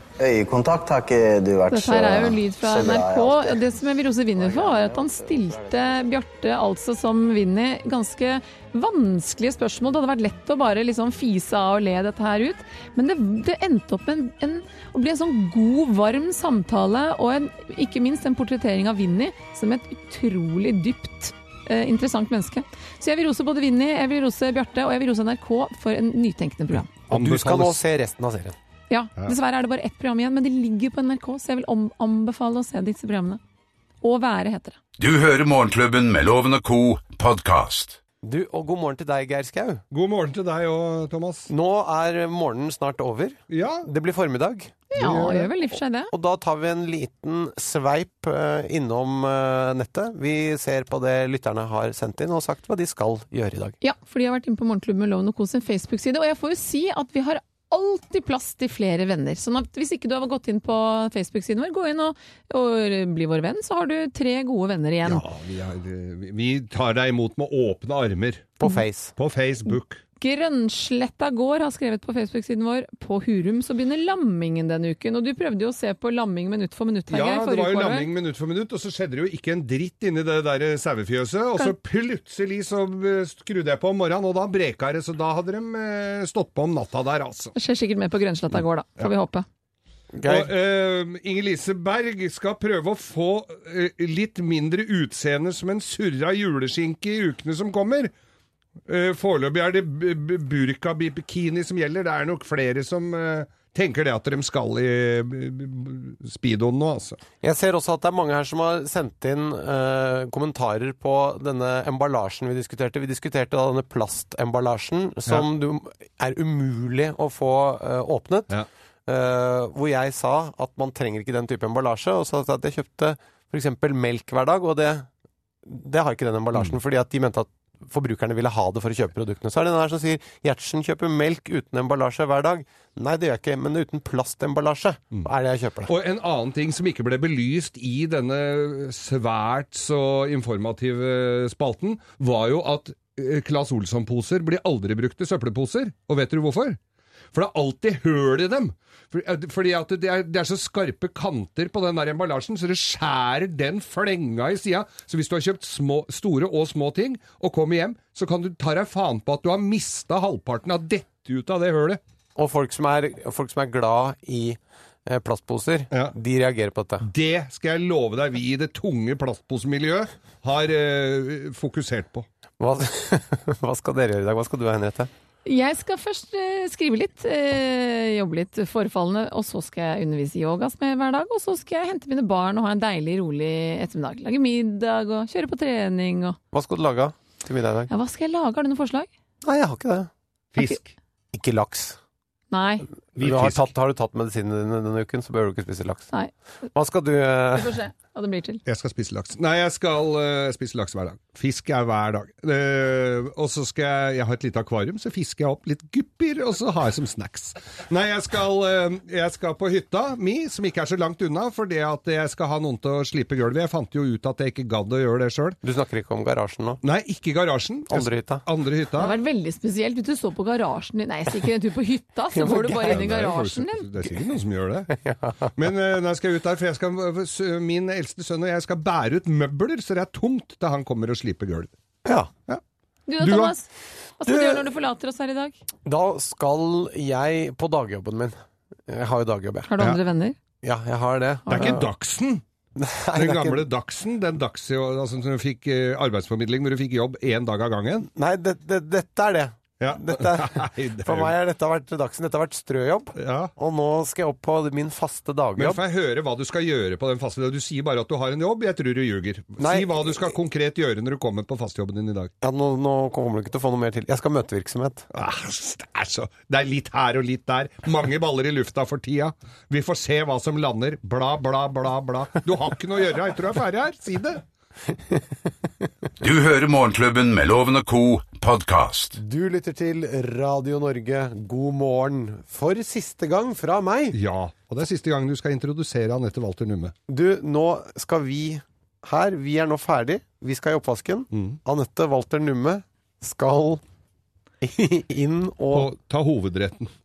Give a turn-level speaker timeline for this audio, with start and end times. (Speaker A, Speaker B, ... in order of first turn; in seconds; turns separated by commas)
Speaker A: 0.2-3.7, Speaker B: 1.7-26.9, Speaker A: 4.3-6.1, Speaker C: 27.1-27.8, Speaker D: 27.1-28.6, Speaker B: 28.9-33.4, Speaker B: 34.0-34.8, Speaker E: 35.0-38.0, Speaker D: 38.2-39.8, Speaker C: 39.9-41.5, Speaker D: 41.5-44.8, Speaker C: 43.5-43.9, Speaker B: 44.9-46.1, Speaker C: 45.0-45.5, Speaker D: 46.1-53.8, Speaker B: 53.8-65.2, Speaker C: 65.0-68.6, Speaker D: 68.6-69.2, Speaker C: 69.2-70.0, Speaker B: 70.2-78.1, Speaker C: 77.1-87.5, Speaker B: 87.6-89.5, Speaker D: 90.2-90.5, Speaker C: 90.3-98.1, Speaker C: 98.9-107.2, Speaker D: 107.4-118.5, Speaker D: 119.1-125.1, Speaker D: 125.7-135.9, Speaker C: 135.9-146.8, Speaker C: 147.3-162.0, Speaker D: 162.4-167.1, Speaker C: 167.0-172.3, Speaker D: 172.6-175.1, Speaker B: 175.4-186.4, Speaker D: 186.5-187.9, Speaker B: 187.9-189.1, Speaker D: 189.4-190.1, Speaker C: 190.5-190.9, Speaker D: 191.3-192.0, Speaker B: 192.5-192.9, Speaker C: 193.2-193.6, Speaker D: 193.2-196.1, Speaker D: 196.7-197.8, Speaker B: 197.6-198.6, Speaker C: 198.7-215.6, Speaker D: 215.6-216.8, Speaker C: 216.8-219.2, Speaker D: 217.9-218.4, Speaker B: 219.0-224.0, Speaker D: 222.3-223.1, Speaker C: 222.9-224.9, Speaker D: 224.9-225.5, Speaker C: 225.6-231.7, Speaker D: 232.1-232.3, Speaker B: 233.1-233.7, Speaker C: 233.2-233.5, Speaker B: 234.2-235.6, Speaker D: 234.2-234.6, Speaker D: 235.8-238.4, Speaker D: 238.9-239.7, Speaker B: 239.7-240.4, Speaker D: 240.6-241.9, Speaker B: 241.5-241.8, Speaker C: 241.5-242.4, Speaker D: 242.8-243.7, Speaker C: 243.2-248.1, Speaker D: 248.1-255.8, Speaker C: 249.8-251.3, Speaker C: 253.2-253.5, Speaker C: 255.6-262.3, Speaker D: 259.6-260.3, Speaker D: 262.4-265.1, Speaker C: 265.1-274.4, Speaker E: 276.2-279.2, Speaker D: 279.2-284.2, Speaker C: 284.1-286.9, Speaker D: 287.1-293.8, Speaker C: 291.3-291.6, Speaker D: 294.6-295.9, Speaker C: 295.7-296.9